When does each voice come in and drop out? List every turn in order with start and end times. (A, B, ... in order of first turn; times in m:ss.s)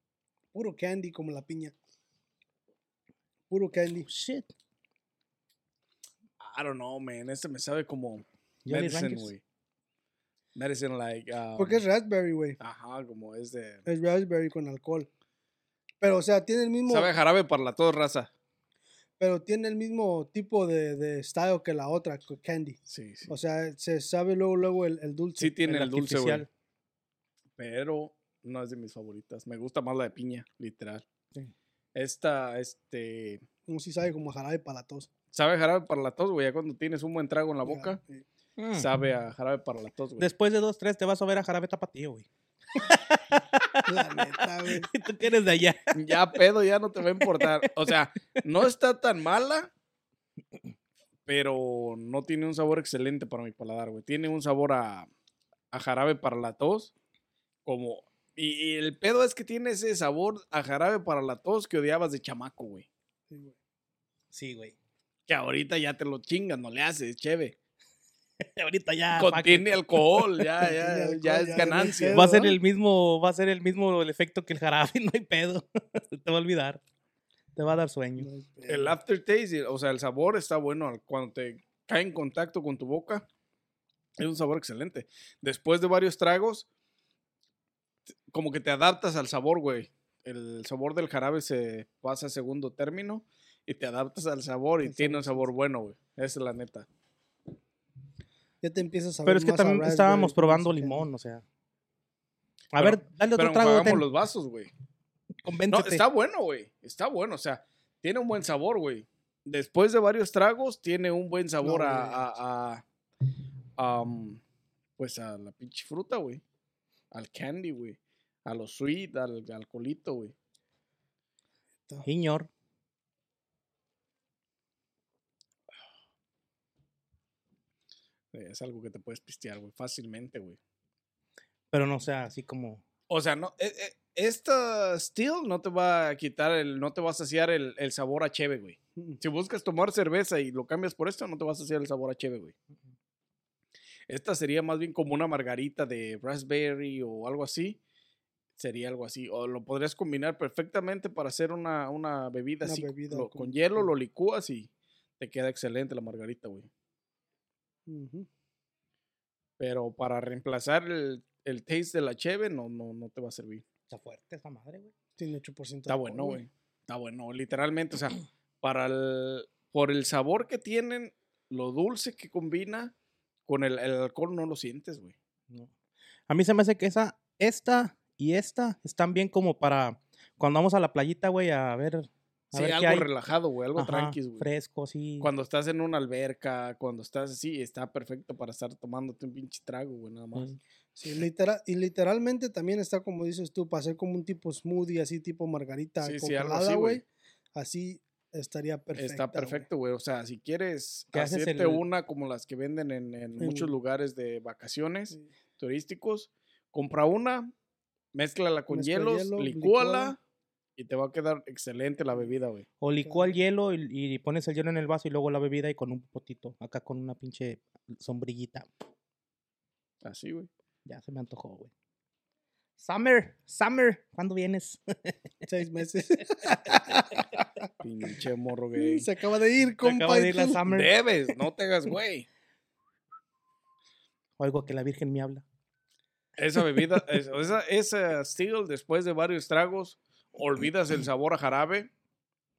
0:00.5-0:01.7 A
0:03.5-0:04.1 A
0:04.1-0:04.5 B
0:06.4-0:09.4 C
0:08.7-0:09.3 B
0:10.6-0:11.8 C
0:11.6-0:12.6 A
0:12.6-0:13.8 C
0:13.9-0:15.1 A
0:16.0-0:17.1 A
0:16.9-0:18.3 C
0:19.2-0:22.8 A
0:22.9-0:23.3 C
0:23.3-0:25.6 A
0:25.4-0:26.5 C
0:25.6-0:26.5 B
0:27.6-0:31.0 C
0:32.0-0:33.4 C
0:33.7-0:35.1 A
0:35.3-0:38.0 C
0:37.6-0:38.2 A
0:38.6-0:38.9 B
0:38.8-0:40.3 C
0:40.2-0:46.0 B
0:43.9-0:44.9 A
0:45.9-0:49.7 C
0:47.2-0:47.9 B
0:51.3-0:55.1 C
0:55.7-0:56.9 C
0:57.6-1:02.9 C
1:04.3-1:04.8 B
1:05.3-1:07.6 C
1:08.4-1:10.5 B
1:09.2-1:12.2 C
1:10.6-1:12.6 A
1:12.1-1:16.8 B
1:17.6-1:18.3 B
1:18.2-1:19.0 A
1:18.7-1:23.3 C
1:24.2-1:26.7 C
1:28.3-1:36.9 C
1:34.8-1:35.5 A
1:38.6-1:41.1 A
1:39.3-1:41.4 B
1:42.7-1:44.0 B
1:42.7-1:44.7 C
1:45.4-1:46.0 B
1:45.7-1:52.8 C
1:51.6-1:52.3 A
1:53.8-1:54.4 C
1:55.0-1:56.4 C
1:57.1-2:00.3 C
2:02.0-2:02.5 B
2:08.3-2:10.6 C
2:11.7-2:12.8 B
2:13.1-2:22.5 C
2:24.1-2:27.8 C
2:28.6-2:36.7 C
2:32.6-2:33.9 A
2:37.9-2:38.3 A
2:39.6-2:43.6 C
2:43.9-2:44.9 B
2:45.2-2:46.4 A
2:45.9-2:52.9 C
2:53.5-2:55.1 C
2:56.3-3:03.1 B
3:02.5-3:04.5 C
3:03.8-3:05.3 B
3:05.2-3:10.5 C
3:11.0-3:17.0 A
3:16.0-3:17.0 C
3:17.6-3:19.7 A
3:19.0-3:27.5 C
3:21.1-3:21.8 B
3:23.4-3:23.7 A
3:28.1-3:30.2 C
3:28.7-3:30.2 A
3:30.8-3:32.6 C
3:32.8-3:38.7 B
3:33.0-3:33.3 A
3:40.0-3:40.5 C
3:40.8-3:41.7 B
3:42.8-3:45.2 B
3:45.5-3:47.7 A
3:47.8-3:49.1 C
3:48.8-3:50.6 A
3:49.8-3:50.9 B
3:50.7-3:52.3 C
3:54.4-3:55.4 B
3:56.4-4:01.9 C